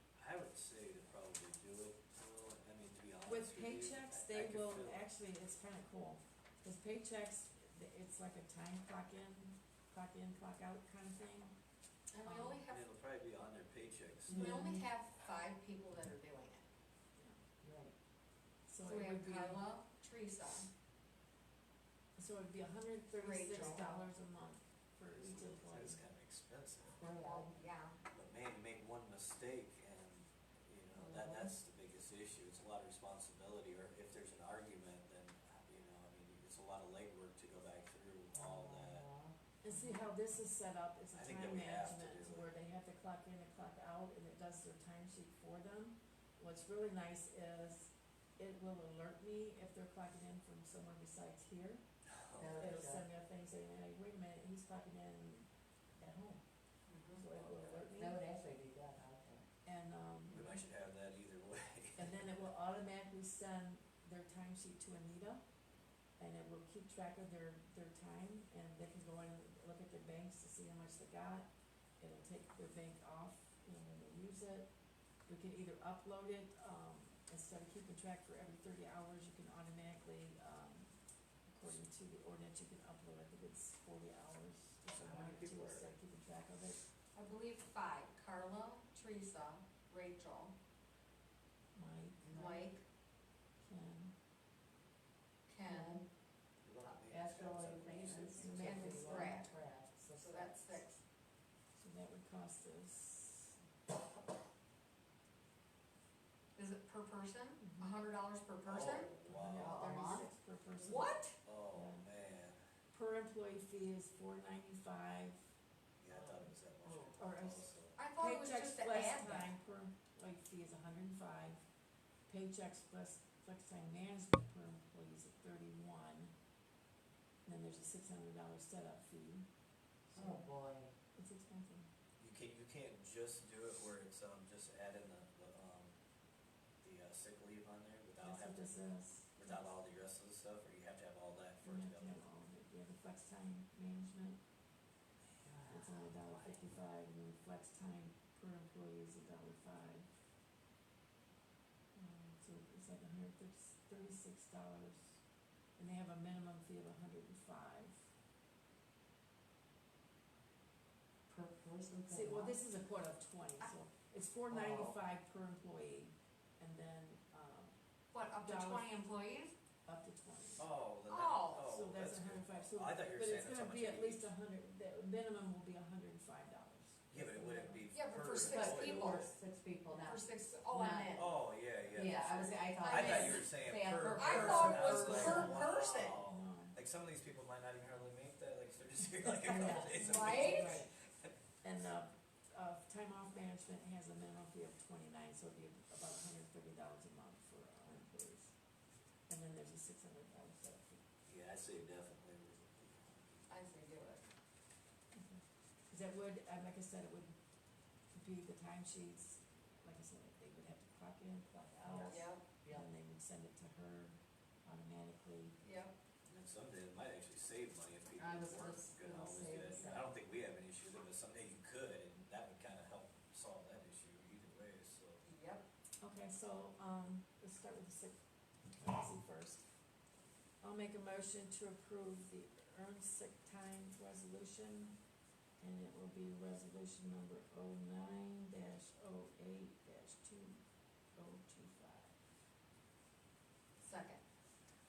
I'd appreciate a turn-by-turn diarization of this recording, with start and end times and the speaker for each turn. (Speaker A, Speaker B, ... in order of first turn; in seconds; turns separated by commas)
Speaker A: 0.2-5.0, Speaker B: 3.2-11.6, Speaker C: 12.1-12.8, Speaker B: 12.2-12.6, Speaker A: 12.7-14.5, Speaker D: 14.3-14.9, Speaker C: 14.3-16.7, Speaker B: 17.1-17.4, Speaker D: 17.6-17.9, Speaker B: 18.7-19.6, Speaker C: 18.8-20.7, Speaker B: 22.2-26.0, Speaker C: 23.2-24.1, Speaker A: 25.1-27.1, Speaker D: 27.0-27.6, Speaker C: 27.1-28.0, Speaker A: 28.1-39.1, Speaker D: 30.9-31.5, Speaker D: 38.3-39.4, Speaker B: 39.6-51.8, Speaker A: 41.1-42.5, Speaker A: 52.1-52.9, Speaker D: 52.4-53.1, Speaker B: 52.6-56.4, Speaker C: 56.9-57.3, Speaker B: 57.1-58.2, Speaker D: 57.8-59.5, Speaker B: 59.6-60.6, Speaker A: 60.3-62.5, Speaker B: 62.0-65.4, Speaker B: 66.2-74.7, Speaker B: 75.3-86.8, Speaker A: 84.9-85.9, Speaker C: 87.1-90.6, Speaker B: 91.7-92.4, Speaker D: 92.2-92.7, Speaker C: 92.3-92.8, Speaker B: 93.6-94.2, Speaker C: 95.5-96.0, Speaker D: 95.7-96.0, Speaker A: 96.6-98.8, Speaker D: 97.1-100.8, Speaker B: 98.4-99.4, Speaker C: 98.6-99.6, Speaker C: 100.2-101.0, Speaker B: 101.8-103.6, Speaker C: 106.6-109.1, Speaker B: 107.6-108.0, Speaker A: 108.6-109.8, Speaker B: 109.2-111.1, Speaker D: 109.5-110.3, Speaker C: 109.8-110.2, Speaker C: 110.8-111.4, Speaker A: 111.4-112.6, Speaker B: 111.7-112.1, Speaker B: 112.9-115.5, Speaker A: 116.0-118.0, Speaker D: 116.1-117.2, Speaker B: 117.2-121.7, Speaker C: 118.0-119.5, Speaker B: 122.3-126.3, Speaker B: 127.5-129.5, Speaker B: 130.1-130.5, Speaker D: 130.1-130.9, Speaker B: 131.1-131.9, Speaker A: 132.2-135.9, Speaker A: 136.8-138.7, Speaker B: 138.2-139.7, Speaker A: 139.3-142.2, Speaker B: 141.6-144.4, Speaker D: 145.4-146.2, Speaker B: 145.7-150.1, Speaker B: 151.9-155.2, Speaker B: 155.8-158.1, Speaker D: 161.3-162.6, Speaker B: 162.1-167.8, Speaker D: 164.5-165.0, Speaker C: 168.1-169.5, Speaker B: 168.4-169.0, Speaker B: 169.8-170.7, Speaker A: 170.6-174.3, Speaker C: 171.1-171.7, Speaker B: 171.7-177.9, Speaker A: 177.1-179.3, Speaker C: 177.9-179.3, Speaker D: 178.4-181.3, Speaker C: 179.9-181.3, Speaker A: 181.2-191.3, Speaker D: 181.9-185.6, Speaker C: 182.2-183.5, Speaker C: 184.1-186.2, Speaker B: 184.7-185.6, Speaker B: 186.2-186.8, Speaker D: 189.4-190.7, Speaker B: 189.6-190.9, Speaker C: 189.9-190.8, Speaker B: 191.6-198.6, Speaker B: 199.3-201.1, Speaker A: 201.3-203.5, Speaker C: 203.5-204.2, Speaker B: 205.2-207.4, Speaker B: 208.1-215.6, Speaker D: 211.8-212.9, Speaker C: 212.1-212.4, Speaker C: 215.6-215.9, Speaker A: 216.3-225.2, Speaker D: 218.2-220.1, Speaker C: 225.2-225.7, Speaker B: 226.0-228.2, Speaker B: 228.7-229.6, Speaker B: 230.6-235.0, Speaker B: 235.6-240.6, Speaker B: 241.1-242.2, Speaker C: 243.8-244.2